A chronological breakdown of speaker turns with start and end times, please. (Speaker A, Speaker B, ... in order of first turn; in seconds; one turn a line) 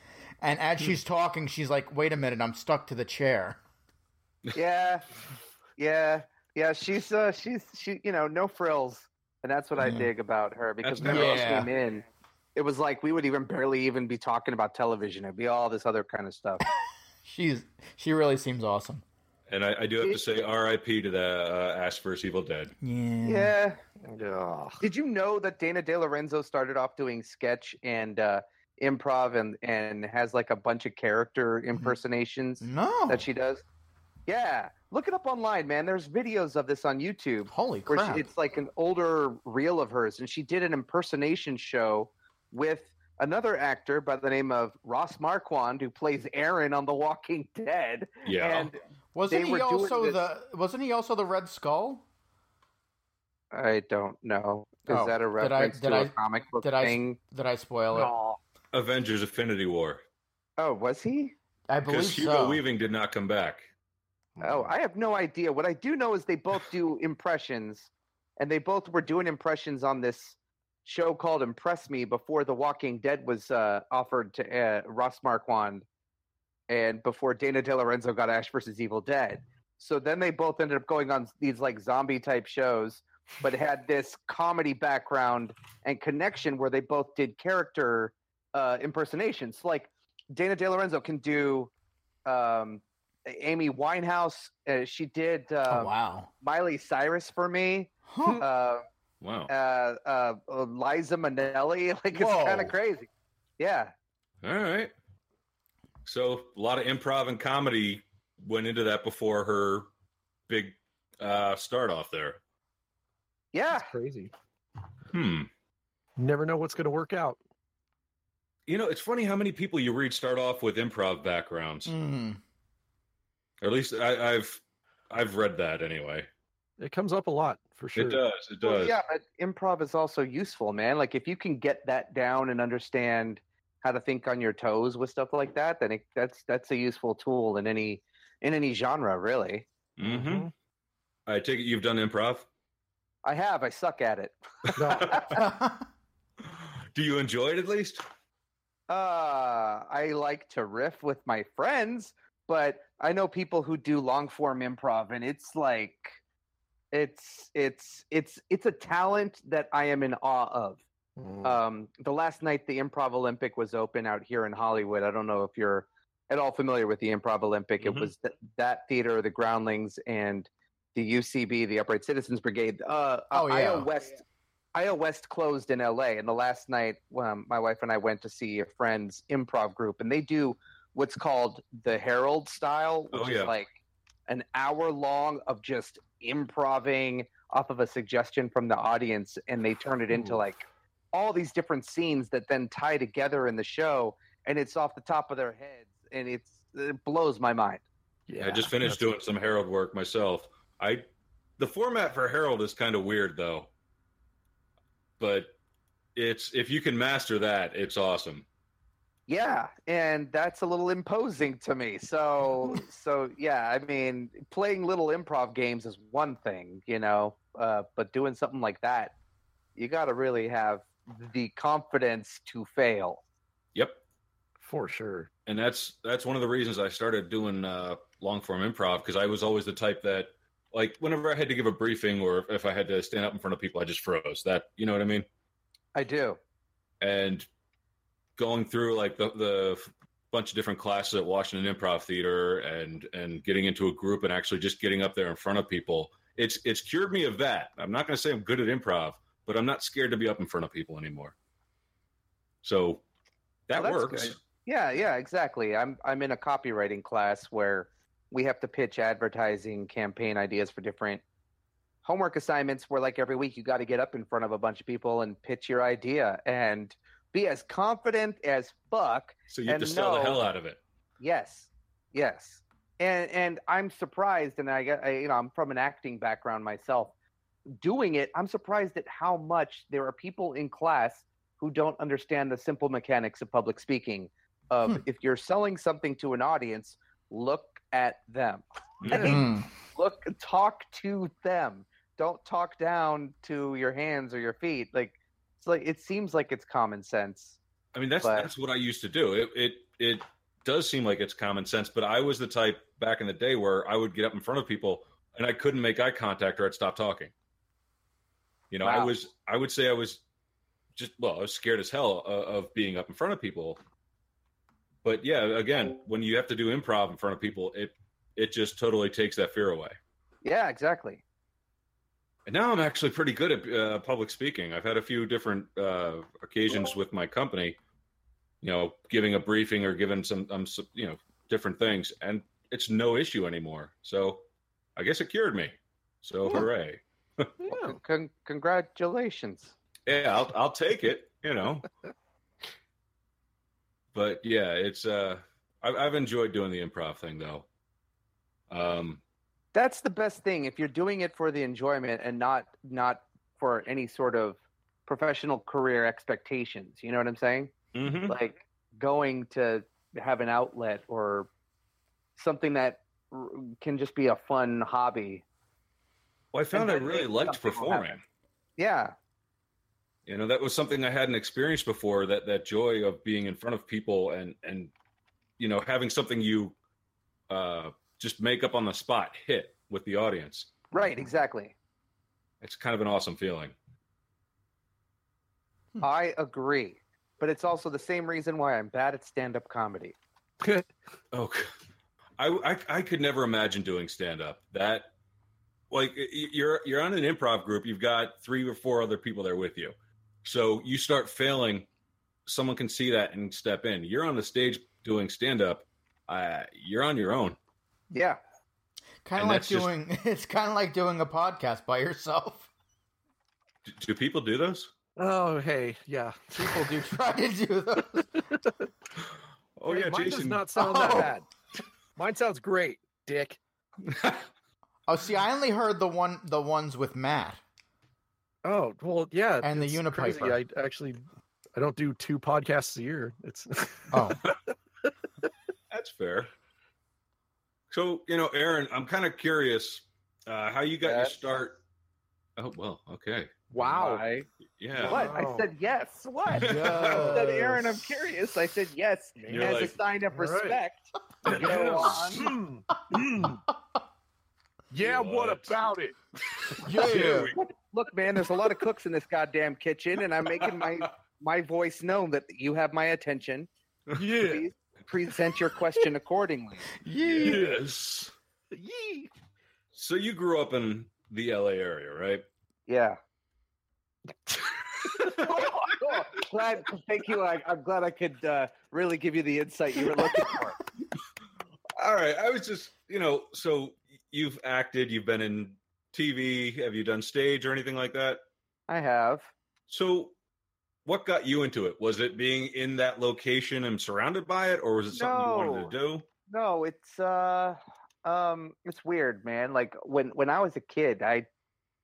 Speaker A: 0.4-3.6
Speaker B: 4.5-5.0
Speaker B: 5.8-16.6
Speaker A: 9.8-10.1
Speaker C: 10.8-11.5
Speaker A: 11.0-11.7
Speaker A: 17.2-19.0
Speaker C: 19.5-22.7
Speaker A: 22.8-23.5
Speaker B: 23.2-23.8
Speaker D: 24.0-24.8
Speaker B: 24.8-33.6
Speaker A: 32.6-33.2
Speaker B: 34.3-50.2
Speaker A: 37.5-38.3
Speaker C: 48.2-48.7
Speaker A: 49.1-52.0
Speaker B: 53.5-57.2
Speaker A: 54.9-58.1
Speaker D: 57.9-58.4
Speaker C: 58.7-60.0
Speaker B: 60.6-61.3
Speaker A: 61.7-62.6
Speaker C: 61.9-63.6
Speaker D: 64.4-64.7
Speaker B: 64.4-75.8
Speaker B: 76.7-91.7
Speaker B: 92.3-98.8
Speaker A: 95.7-96.3
Speaker A: 98.1-98.5
Speaker C: 99.2-99.5
Speaker B: 99.5-103.9
Speaker A: 102.1-102.8
Speaker C: 104.4-104.9
Speaker C: 106.0-109.9
Speaker C: 110.5-112.4
Speaker B: 113.5-113.9
Speaker D: 113.7-114.3
Speaker C: 115.1-115.5
Speaker D: 116.2-117.4
Speaker C: 118.7-121.9
Speaker A: 121.9-122.4
Speaker C: 123.6-126.3
Speaker D: 126.8-128.2
Speaker C: 128.0-128.9
Speaker B: 128.6-139.7
Speaker C: 140.0-140.5
Speaker D: 140.0-140.5
Speaker C: 141.3-142.5
Speaker B: 143.2-145.4
Speaker D: 144.8-145.2
Speaker C: 145.0-145.3
Speaker A: 145.4-145.8
Speaker C: 146.4-148.0
Speaker B: 148.9-156.2
Speaker B: 156.9-160.8
Speaker D: 161.2-161.6
Speaker B: 161.4-174.2
Speaker C: 167.8-168.1
Speaker A: 173.3-173.9
Speaker B: 174.8-183.7
Speaker C: 183.1-183.5
Speaker B: 184.3-197.8
Speaker D: 190.1-190.4
Speaker D: 198.3-199.1
Speaker C: 198.4-201.1
Speaker C: 201.6-203.7
Speaker C: 205.2-205.5
Speaker C: 206.2-208.5
Speaker B: 209.3-219.1
Speaker B: 219.8-223.2
Speaker D: 224.6-225.3
Speaker C: 225.5-235.3
Speaker B: 235.9-236.4
Speaker C: 237.0-237.5
Speaker C: 238.4-251.3
Speaker C: 252.6-253.0
Speaker C: 253.7-254.4
Speaker B: 253.8-261.2
Speaker B: 262.0-270.4
Speaker C: 269.5-270.8
Speaker B: 271.2-277.1
Speaker B: 277.7-297.6
Speaker C: 289.0-289.4
Speaker D: 289.1-289.4
Speaker A: 289.2-289.7
Speaker C: 297.9-307.3
Speaker B: 298.2-298.5
Speaker C: 308.7-310.2
Speaker B: 308.8-309.1
Speaker C: 310.9-313.8
Speaker C: 315.0-320.0
Speaker B: 320.4-321.2
Speaker C: 322.5-327.8
Speaker C: 328.6-334.4
Speaker C: 335.0-337.5
Speaker D: 337.6-338.0
Speaker B: 337.7-339.7
Speaker C: 340.1-341.9
Speaker C: 344.1-347.7
Speaker C: 348.7-349.2
Speaker B: 349.7-357.7
Speaker C: 357.9-358.4
Speaker B: 358.3-361.5
Speaker B: 362.4-365.4
Speaker C: 366.5-368.2
Speaker B: 366.7-368.2
Speaker B: 368.8-369.1
Speaker C: 370.3-374.9
Speaker C: 375.6-376.8
Speaker C: 377.5-380.7
Speaker B: 380.9-381.7
Speaker C: 382.6-383.8
Speaker B: 386.0-390.2
Speaker D: 390.6-390.9
Speaker C: 391.3-391.7
Speaker C: 392.4-395.1
Speaker C: 395.9-401.9
Speaker C: 402.5-407.6
Speaker B: 408.1-408.4
Speaker A: 409.2-412.7
Speaker C: 409.4-409.9
Speaker C: 413.9-414.9
Speaker D: 415.2-417.0
Speaker A: 416.6-418.4
Speaker C: 419.8-421.3
Speaker D: 419.9-421.5
Speaker A: 420.8-421.3
Speaker D: 422.2-423.6
Speaker C: 424.1-424.4
Speaker A: 425.1-427.6
Speaker D: 428.6-431.2
Speaker A: 429.6-430.6
Speaker D: 431.8-434.5
Speaker A: 434.1-434.4
Speaker C: 435.9-436.5
Speaker C: 437.9-441.8
Speaker B: 441.0-441.4
Speaker C: 442.6-443.5
Speaker D: 443.7-444.2
Speaker B: 443.8-444.5
Speaker C: 444.8-445.4
Speaker D: 445.0-445.7
Speaker B: 445.0-452.5
Speaker C: 446.6-447.3
Speaker A: 446.6-447.9
Speaker D: 446.7-447.6
Speaker D: 449.4-450.8
Speaker C: 449.5-449.9
Speaker D: 451.4-453.6
Speaker C: 451.5-452.2
Speaker D: 454.9-456.2
Speaker C: 455.0-455.8
Speaker A: 456.8-457.5
Speaker D: 456.9-457.4
Speaker C: 457.0-457.6
Speaker B: 457.5-463.7
Speaker D: 464.1-464.6
Speaker B: 464.4-466.9
Speaker A: 467.0-467.7
Speaker C: 467.2-468.3
Speaker D: 467.4-467.8
Speaker D: 468.7-469.3
Speaker C: 469.9-472.4
Speaker B: 472.9-473.2
Speaker D: 475.2-475.4
Speaker B: 475.3-480.8
Speaker C: 482.0-488.4
Speaker B: 488.9-489.5
Speaker C: 489.9-490.3
Speaker C: 491.1-496.2
Speaker B: 495.1-495.9
Speaker B: 496.5-501.5